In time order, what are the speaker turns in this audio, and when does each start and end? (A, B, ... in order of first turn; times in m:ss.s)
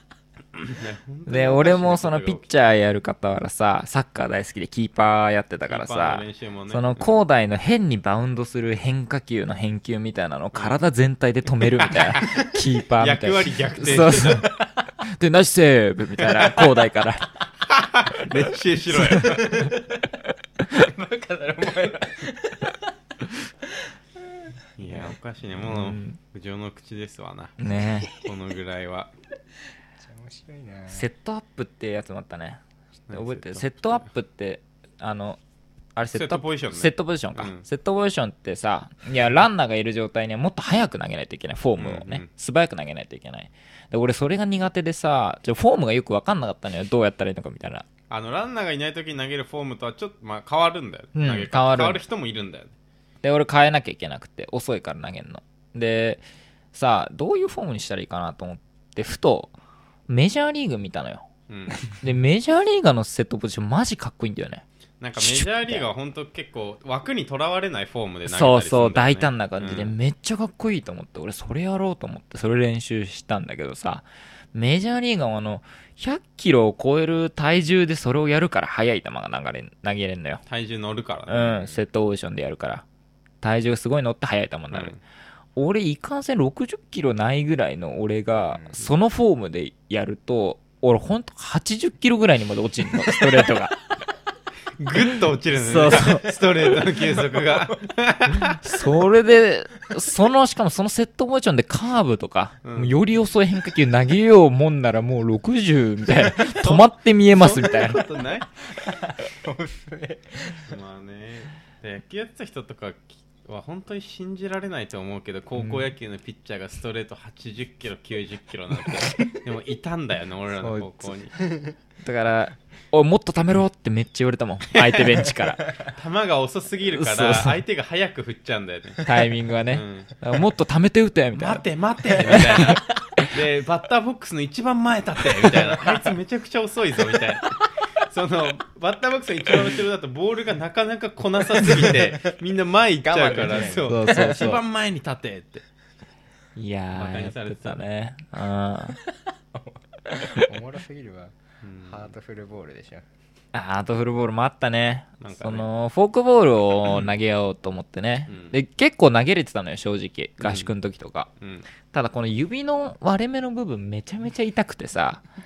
0:00.6-0:02.5 A
0:01.3-0:17.3 B
0:05.7-0:07.2 A
0:10.5-0:10.8 A
0:12.0-0:12.4 A
0:13.0-0:14.5 A
0:16.2-0:16.5 A
0:17.7-0:19.7 A
0:19.0-0:19.4 B
0:19.2-0:19.9 C
0:20.8-0:22.8 C
0:24.8-0:27.6 A
0:25.6-0:26.2 B
0:27.6-0:28.1 B
0:28.1-0:29.1 A
0:30.0-0:31.1 C
0:30.9-0:35.4 B
0:33.1-0:33.7 A
0:36.0-0:47.8 B
0:36.1-0:37.6 A
0:41.8-0:42.3 A
0:48.1-0:52.7 A
0:51.2-0:52.0 B
0:53.2-0:56.2 B
0:56.7-0:59.5 B
1:00.1-1:01.3 B
1:01.5-1:01.8 A
1:01.9-1:04.6 B
1:05.0-1:10.0 A
1:05.2-1:05.9 B
1:08.3-1:20.4 B
1:20.5-1:21.6 A
1:21.3-1:22.8 B
1:23.4-1:25.0 B
1:24.7-1:25.0 A
1:25.6-1:33.8 B
1:28.4-1:28.8 C
1:34.8-1:38.6 A
1:35.5-1:36.3 B
1:38.4-1:48.0 B
1:42.6-1:42.9 A
1:46.4-1:48.5 A
1:48.7-1:50.8 C
1:50.6-2:01.4 A
1:55.6-1:55.9 B
2:00.6-2:01.1 B
2:02.0-2:05.8 B
2:05.9-2:09.0 A
2:06.8-2:07.6 B
2:09.0-2:11.6 B
2:09.7-2:10.1 A
2:11.4-2:25.6 A
2:12.2-2:12.8 B
2:23.0-2:24.1 C
2:23.6-2:24.6 B
2:26.6-2:29.0 B
2:26.9-2:27.8 A
2:29.0-2:33.0 C
2:31.6-2:32.0 A
2:33.5-2:41.3 B
2:35.2-2:35.7 A
2:38.3-2:38.6 A
2:40.4-2:40.7 A
2:41.4-2:41.6 A
2:41.9-2:45.2 B